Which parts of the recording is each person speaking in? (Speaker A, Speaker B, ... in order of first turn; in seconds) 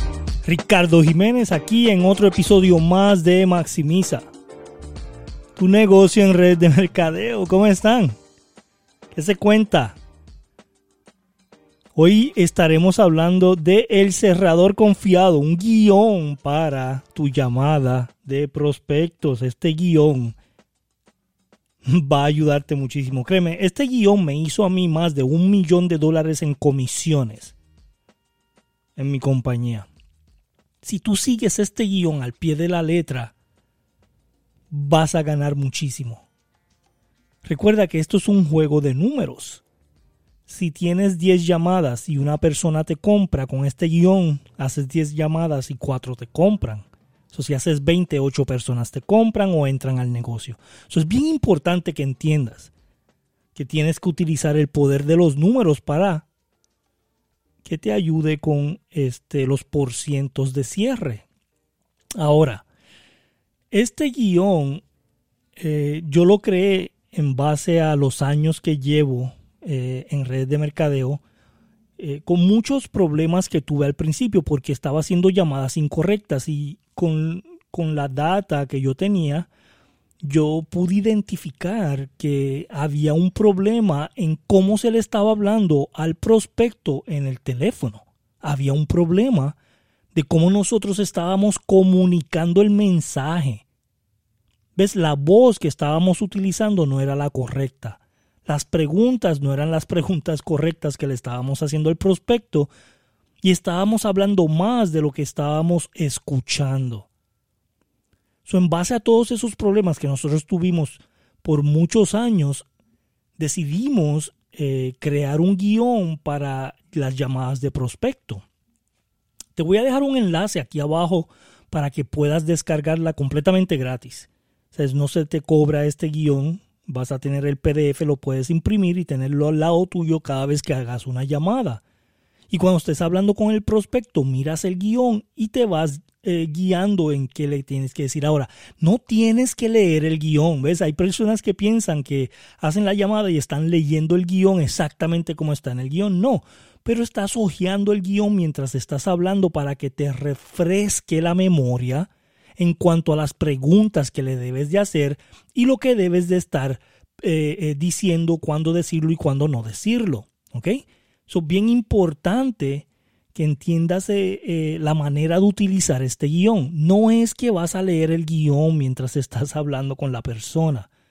Speaker A: 0.4-4.3, 5.6-8.2, 9.1-10.0, 11.9-20.4, 21.8-27.6, 29.0-29.9, 30.8-33.4, 34.7-36.3, 37.4-39.6, 40.5-52.7, 53.5-56.3, 57.6-61.3, 62.2-62.6, 63.7-64.8, 65.6-71.2, 72.0-79.5, 80.2-89.6, 90.1-93.7, 94.8-102.7, 103.4-107.1, 108.5-112.7, 113.4-118.5, 119.6-131.8, 132.5-170.9